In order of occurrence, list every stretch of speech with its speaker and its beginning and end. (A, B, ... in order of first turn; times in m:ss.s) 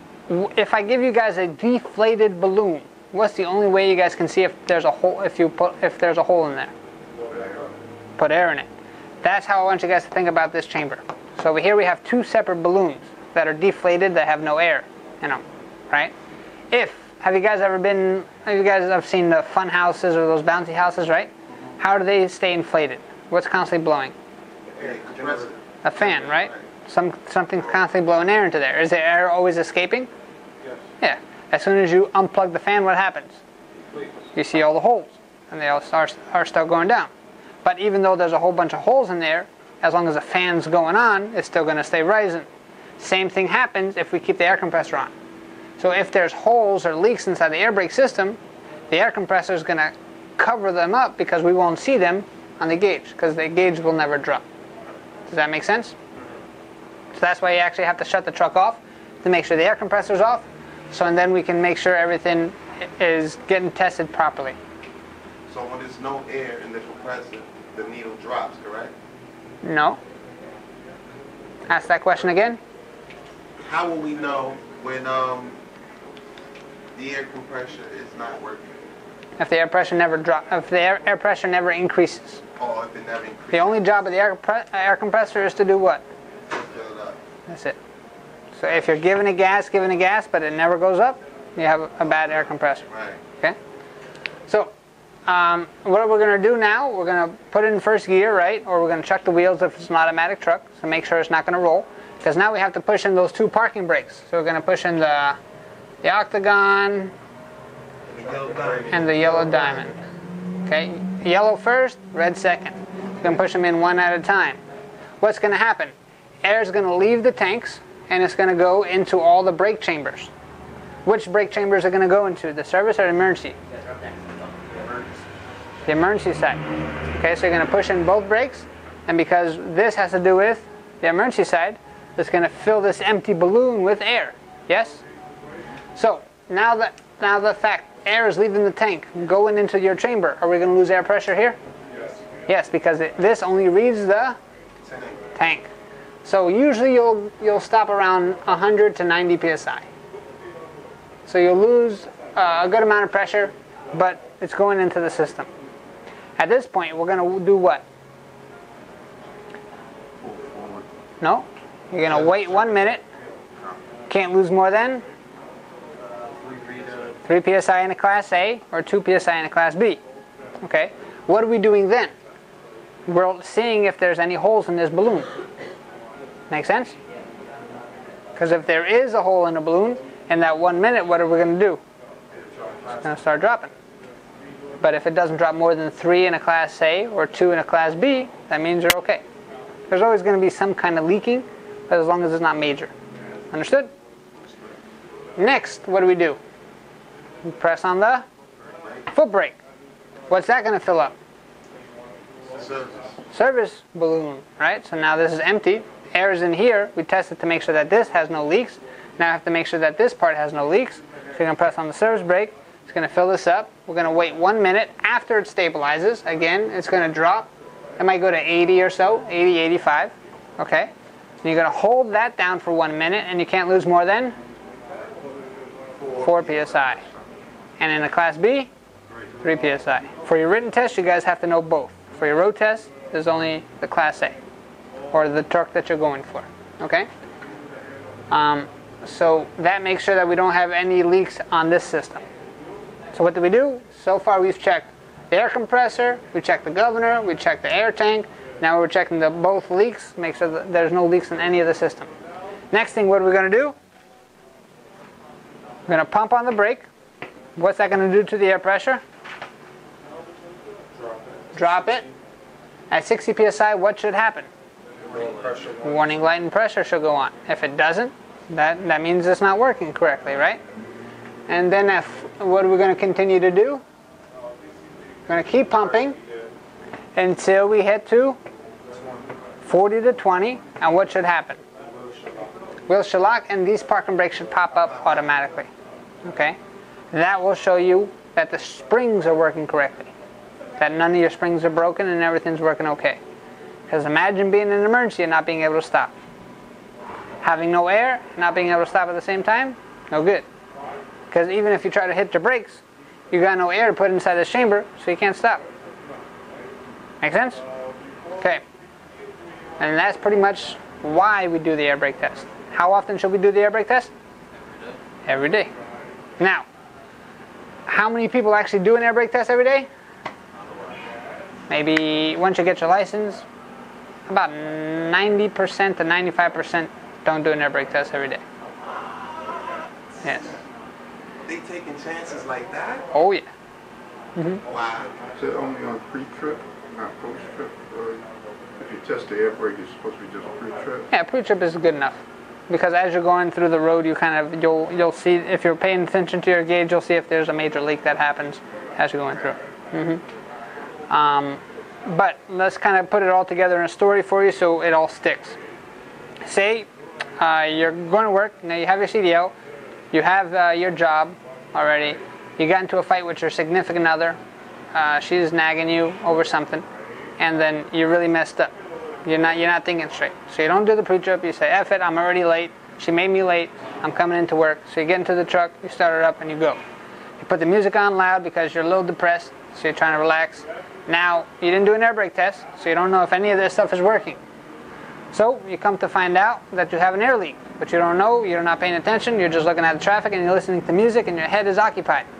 0:00.3-0:06.7 A
0:08.2-0:08.7 A
0:09.2-0:16.1 A
0:16.7-0:24.1 A
0:24.7-0:25.5 B
0:24.8-0:26.6 C
0:25.8-0:30.1 A
0:31.0-0:33.4 A
0:33.7-0:34.2 B
0:34.3-0:37.1 A
0:37.6-0:45.1 A
0:45.8-0:48.4 A
0:48.9-0:54.4 A
0:55.3-0:55.9 A
0:57.1-1:04.6 A
1:05.5-1:08.9 C
1:09.6-1:10.0 A
1:11.7-1:12.6 A
1:13.6-1:15.6 C
1:16.9-1:18.7 C
1:19.4-1:22.4 A
1:22.6-1:23.9 C
1:23.5-1:26.0 A
1:26.5-1:27.2 C
1:27.5-1:27.8 A
1:28.5-1:32.9 A
1:32.9-1:33.2 C
1:35.3-1:45.4 A
1:46.0-1:47.1 A
1:48.1-1:49.8 C
1:48.9-1:49.9 A
1:50.6-1:54.6 A
1:55.2-2:00.3 A
2:01.0-2:03.6 A
2:03.7-2:05.2 D
2:05.8-2:15.0 A
2:16.0-2:21.6 A
2:22.5-2:24.4 A
2:24.8-2:25.2 C
2:25.3-2:25.7 A
2:26.2-2:29.8 A
2:31.2-2:35.5 A
2:36.4-2:37.8 A
2:40.2-2:40.8 C
2:41.2-2:43.0 A
2:42.1-2:42.5 C
2:44.1-2:45.0 A
2:46.0-2:47.2 D
2:47.2-2:50.0 A
2:50.6-2:52.1 A
2:53.0-2:55.3 A
2:56.5-2:57.0 A
2:58.4-3:01.8 A
3:02.3-3:03.0 B
3:03.0-3:03.7 A
3:04.8-3:09.2 A
3:09.9-3:12.9 A
3:13.5-3:13.9 A
3:14.4-3:14.6 C
3:15.4-3:16.4 A
3:17.4-3:18.2 A
3:18.7-3:19.0 C
3:19.1-3:19.6 A
3:20.3-3:21.2 A
3:22.5-3:23.2 C
3:23.3-3:40.9 A
3:41.4-3:44.4 A
3:46.0-3:47.2 C
3:46.2-3:47.0 A
3:47.8-3:48.7 A
3:49.4-3:54.4 A
3:55.1-3:57.1 A
3:58.3-4:02.2 A
4:03.1-4:12.1 A
4:12.7-4:13.8 A
4:15.9-4:16.8 A
4:17.6-4:19.0 A
4:20.9-4:22.1 B
4:21.5-4:22.0 A
4:22.9-4:24.5 A
4:25.0-4:25.7 D
4:25.1-4:26.1 B
4:25.8-4:30.6 A
4:31.5-4:33.8 A
4:35.3-4:36.2 A
4:37.2-4:38.4 A
4:38.9-4:39.3 B
4:39.6-4:41.6 A
4:41.8-4:42.5 B
4:42.9-4:45.7 A
4:46.2-4:46.6 A
4:47.1-4:50.1 A
4:50.8-4:53.2 A
4:53.9-4:56.1 A
4:57.4-5:00.4 A
5:01.3-5:05.6 A
5:07.2-5:07.6 A
5:09.8-5:14.1 A
5:14.5-5:15.0 D
5:15.2-5:15.7 A
5:16.4-5:16.6 A
5:17.9-5:19.9 A
5:20.5-5:21.1 D
5:21.7-5:23.4 A
5:24.3-5:28.4 A
5:30.2-5:30.5 A
5:31.4-5:33.1 C
5:33.1-5:33.5 A
5:34.4-5:34.6 A
5:34.6-5:35.2 C
5:35.4-5:38.2 E
5:38.8-5:41.1 E
5:41.1-5:50.2 A
5:51.1-5:55.6 A
5:56.4-5:59.5 A
6:00.1-6:04.4 A
6:04.9-6:06.8 A
6:07.4-6:08.7 A
6:09.2-6:16.8 A
6:17.4-6:24.4 A
6:25.3-6:32.2 A